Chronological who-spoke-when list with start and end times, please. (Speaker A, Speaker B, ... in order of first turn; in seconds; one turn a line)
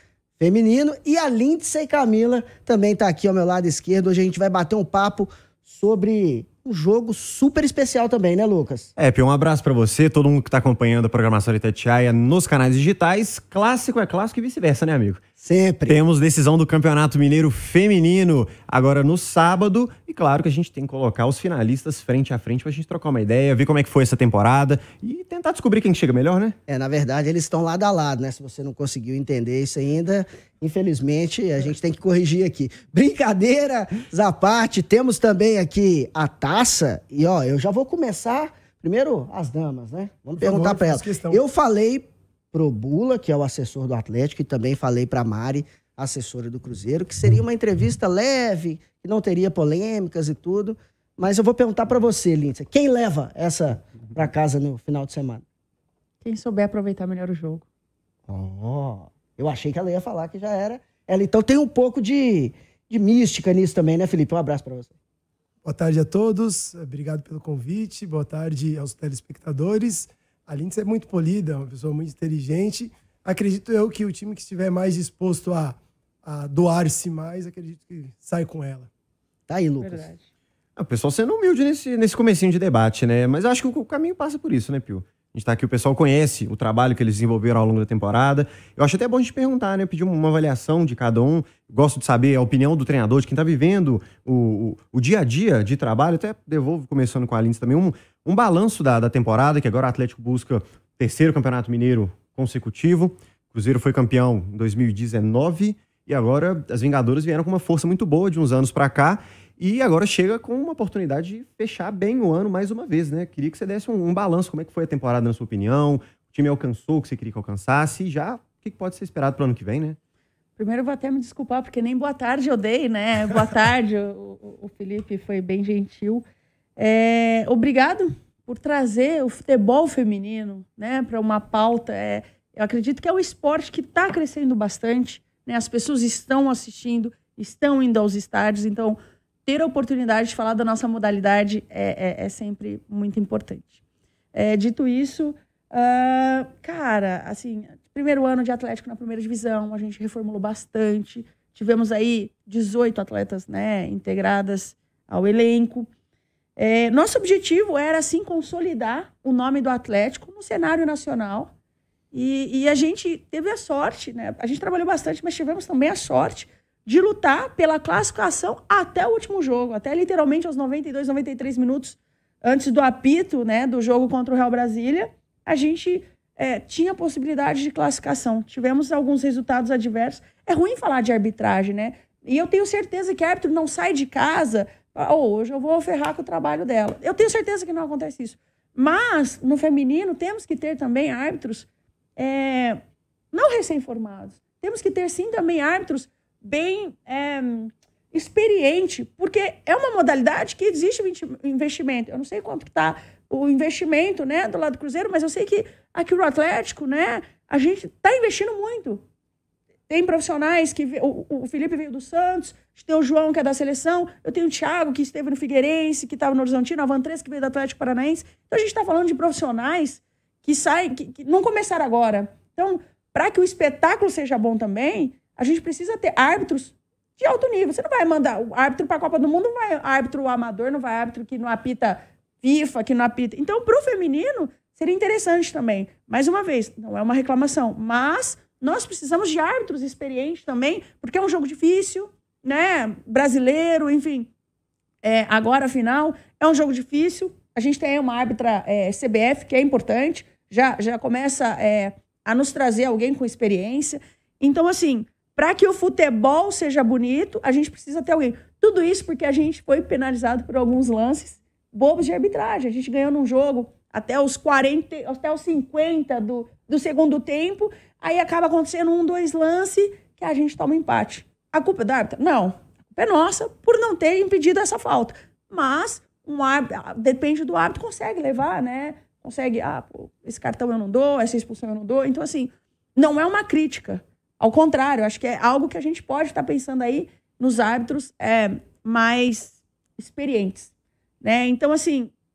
Speaker A: 0.4-8.9
Speaker B: 9.0-15.2
Speaker A: 15.4-16.0
Speaker B: 15.9-26.6
Speaker A: 26.7-55.4
Speaker C: 40.4-41.4
Speaker D: 56.2-57.6
Speaker A: 58.3-64.9
Speaker C: 65.6-78.9
Speaker A: 79.5-80.1
Speaker D: 79.8-80.2
Speaker B: 80.8-120.0
Speaker D: 120.6-126.2
Speaker D: 126.8-143.8
Speaker D: 144.3-155.9
Speaker D: 156.6-161.5
Speaker D: 162.1-192.8
Speaker D: 193.3-209.0
Speaker D: 209.9-244.3
Speaker D: 245.0-292.2